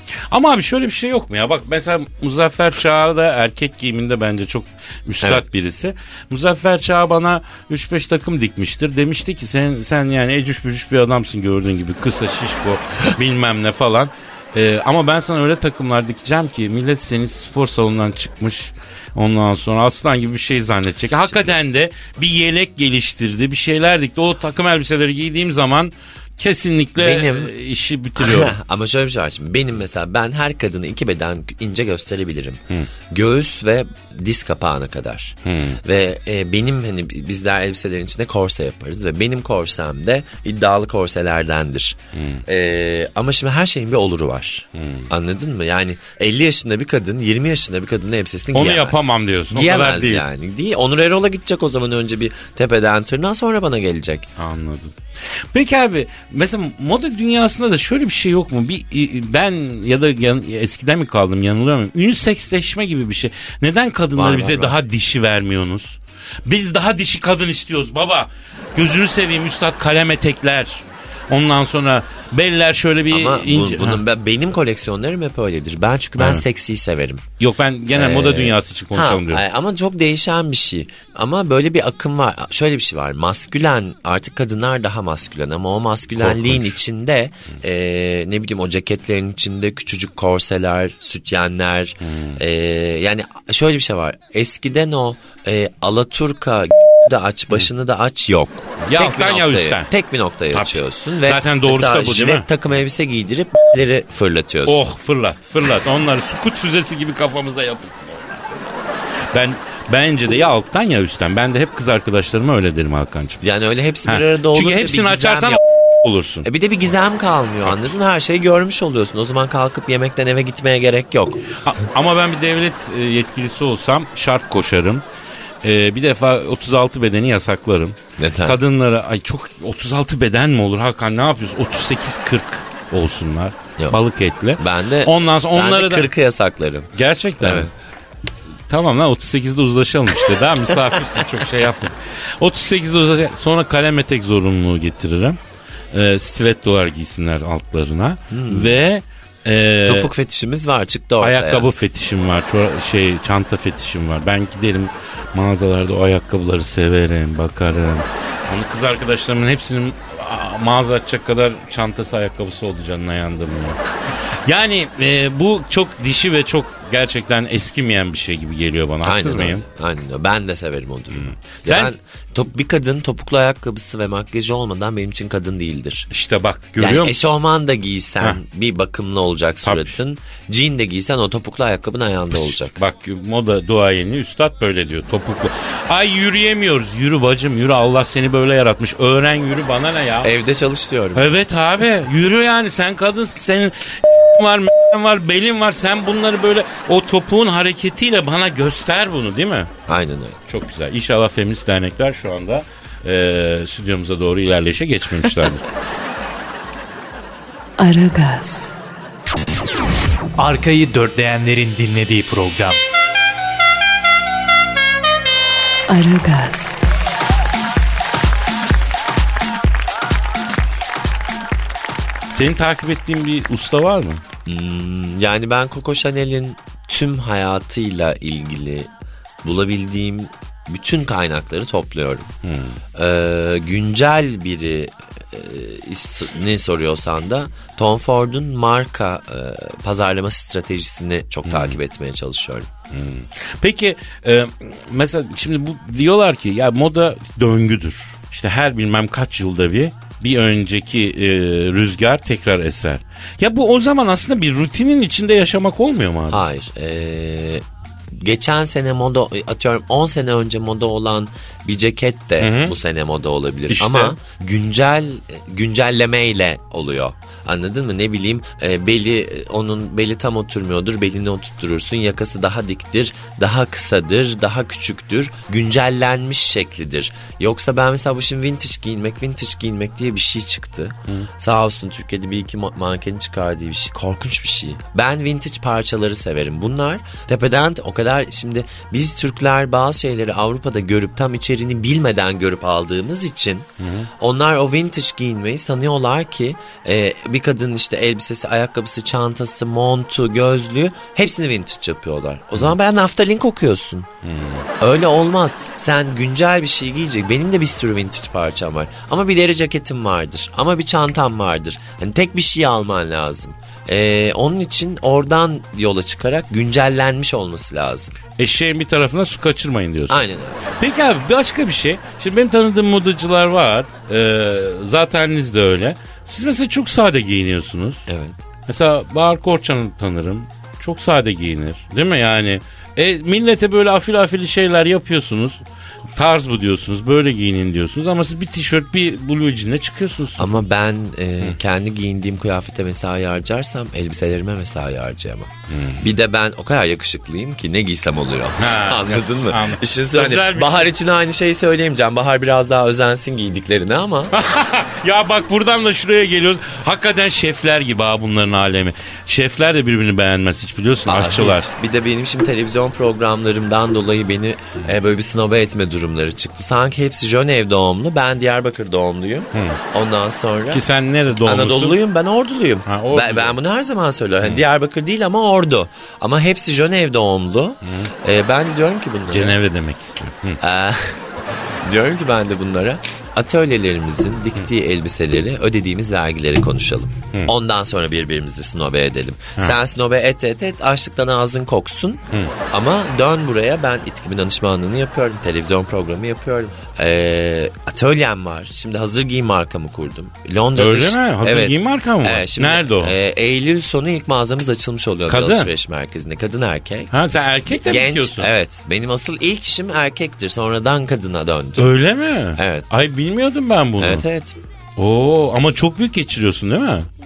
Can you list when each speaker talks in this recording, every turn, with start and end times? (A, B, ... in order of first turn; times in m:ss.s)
0:00.3-0:28.6 A
0:21.3-0:21.5 B
0:27.0-0:27.5 B
0:28.2-0:54.3 B
0:35.4-0:35.8 A
0:42.1-0:42.4 A
0:44.8-0:45.1 A
0:48.5-0:50.3 A
0:54.4-1:14.0 A
1:04.2-1:04.7 B
1:13.1-1:17.2 B
1:16.2-1:16.4 A
1:17.4-1:19.4 A
1:17.9-1:44.8 B
1:26.2-1:26.8 A
1:32.0-1:32.4 A
1:38.8-1:39.9 A
1:40.5-1:42.5 A
1:44.6-1:48.7 A
1:49.3-1:53.4 A
1:53.4-1:55.6 B
1:54.0-1:56.5 A
1:56.4-2:01.4 B
2:01.6-2:05.0 A
2:05.6-2:16.1 A
2:08.2-2:08.6 B
2:14.6-2:17.7 B
2:16.9-2:17.7 A
2:18.7-2:25.4 A
2:25.9-2:30.1 A
2:28.3-2:28.8 B
2:29.8-2:31.7 B
2:31.2-2:43.8 A
2:44.4-2:49.6 A
2:49.0-2:56.1 B
2:51.1-2:51.9 A
2:56.1-2:57.2 A
2:56.8-3:02.8 B
2:59.6-3:00.0 A
3:02.3-3:10.3 A
3:10.2-3:11.3 B
3:11.1-3:19.7 A
3:19.9-3:20.4 B
3:20.5-3:25.6 A
3:27.8-3:28.8 C
3:30.4-3:32.8 D
3:35.9-3:36.9 C
3:42.3-3:44.2 A
3:44.4-3:48.9 B
3:49.4-3:52.3 B
3:52.4-3:52.8 A
3:52.9-4:02.7 B
4:01.4-4:01.8 A
4:02.9-4:16.4 A
4:16.3-5:04.1 B
4:22.4-4:22.7 A
4:23.7-4:24.1 A
4:53.8-4:54.1 A
5:04.2-5:04.7 A
5:04.8-5:18.1 B
5:18.4-5:28.0 A
5:20.1-5:20.7 B
5:28.1-5:28.4 B
5:28.7-5:35.6 A
5:36.1-5:40.6 A
5:40.4-5:54.4 B
5:45.7-5:46.1 A
5:48.6-5:50.9 A
5:54.3-6:01.7 A
6:01.1-6:19.6 B
6:09.5-6:09.8 A
6:10.7-6:12.0 A
6:12.8-6:13.6 A
6:17.8-6:18.1 A
6:19.3-6:20.6 A
6:20.6-6:47.1 B
6:40.7-6:43.1 A
6:45.3-6:45.7 A
6:47.1-6:48.5 A
6:47.7-6:51.9 B
6:51.8-6:54.2 A
6:52.5-6:52.8 B
6:54.0-6:54.6 B
6:55.0-6:57.1 A